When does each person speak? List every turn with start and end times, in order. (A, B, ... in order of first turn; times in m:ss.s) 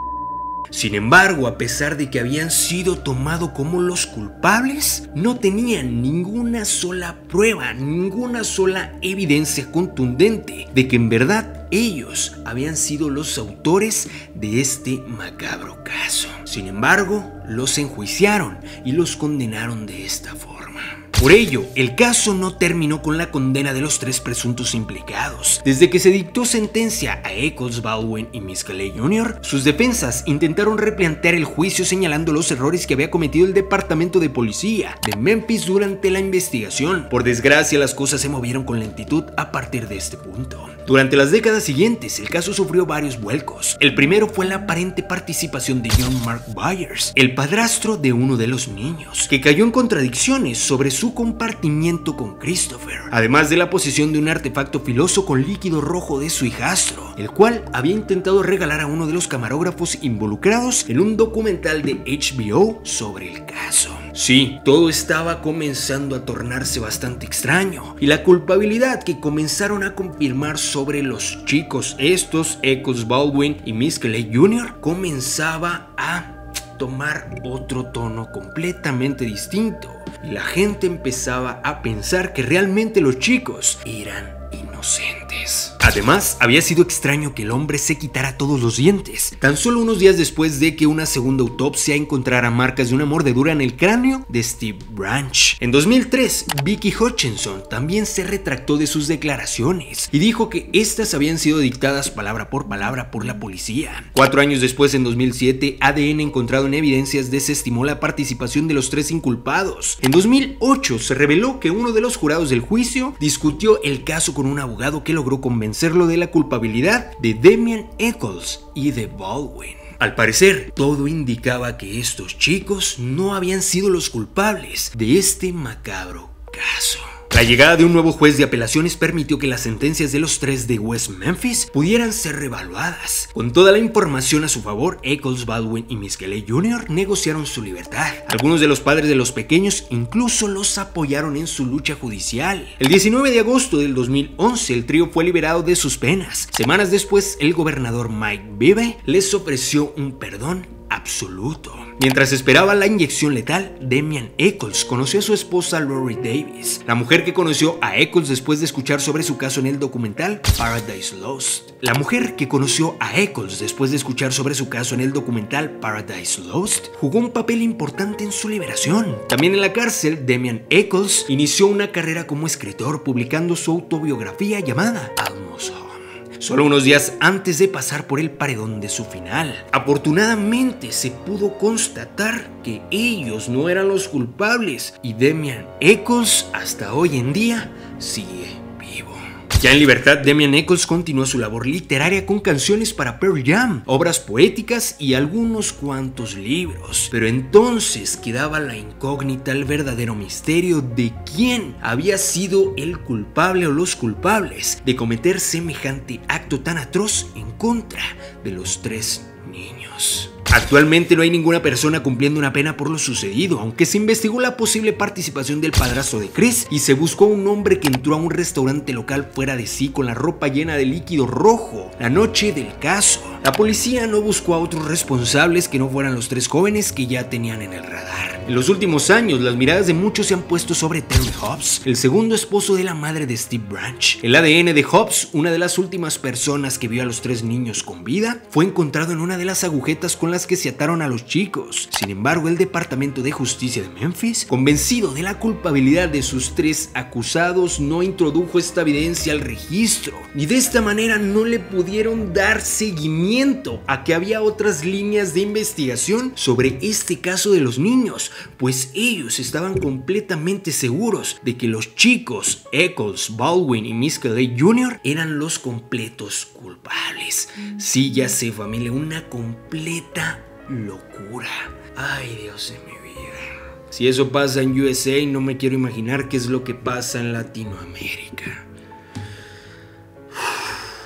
0:00.7-4:38.7 A
4:40.4-4:40.7 A